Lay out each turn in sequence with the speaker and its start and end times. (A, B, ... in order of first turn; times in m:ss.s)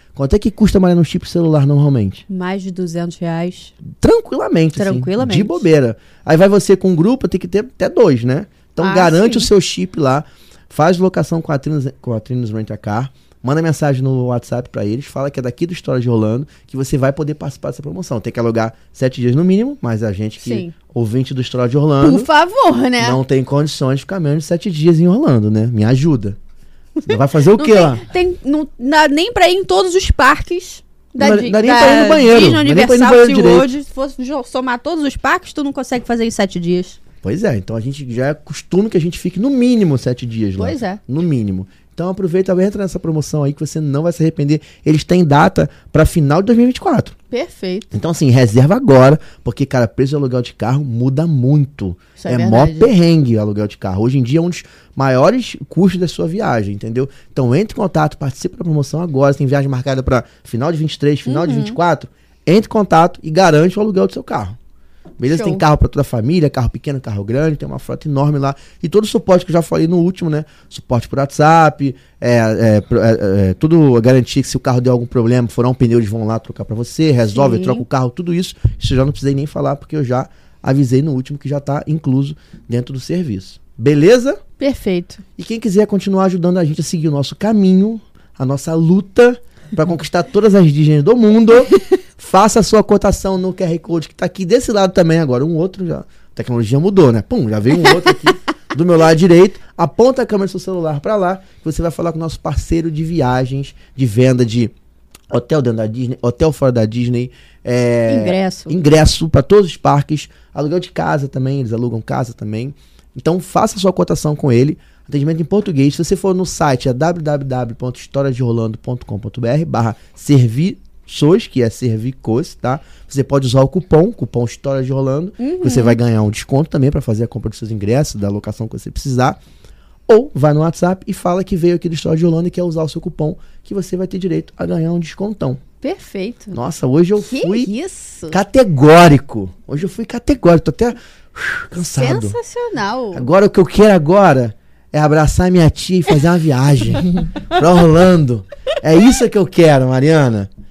0:00.1-0:02.2 A
0:02.3-0:03.7 B
0:03.9-0:22.3 A
0:04.8-0:05.6 B
0:08.8-0:09.5 B
0:20.4-0:20.7 B
0:22.0-0:23.2 B
0:23.0-0:26.4 A
0:27.0-0:37.0 B
0:27.0-0:28.0 A
0:31.2-0:33.7 A
0:37.2-0:47.1 A
0:40.6-0:41.0 B
0:47.3-0:47.9 B
0:47.9-1:04.6 A
0:52.2-0:52.9 B
1:01.2-1:01.8 B
1:05.2-1:24.4 A
1:05.2-1:05.6 B
1:17.3-1:17.8 B
1:24.6-1:25.2 B
1:25.4-1:44.7 A
1:45.3-2:09.4 A
1:48.1-1:48.7 B
2:05.4-2:06.0 B
2:10.1-2:15.6 A
2:15.8-2:16.6 B
2:16.5-2:17.7 A
2:17.2-2:18.4 B
2:18.3-2:22.4 A
2:21.8-2:23.3 B
2:23.1-2:30.5 A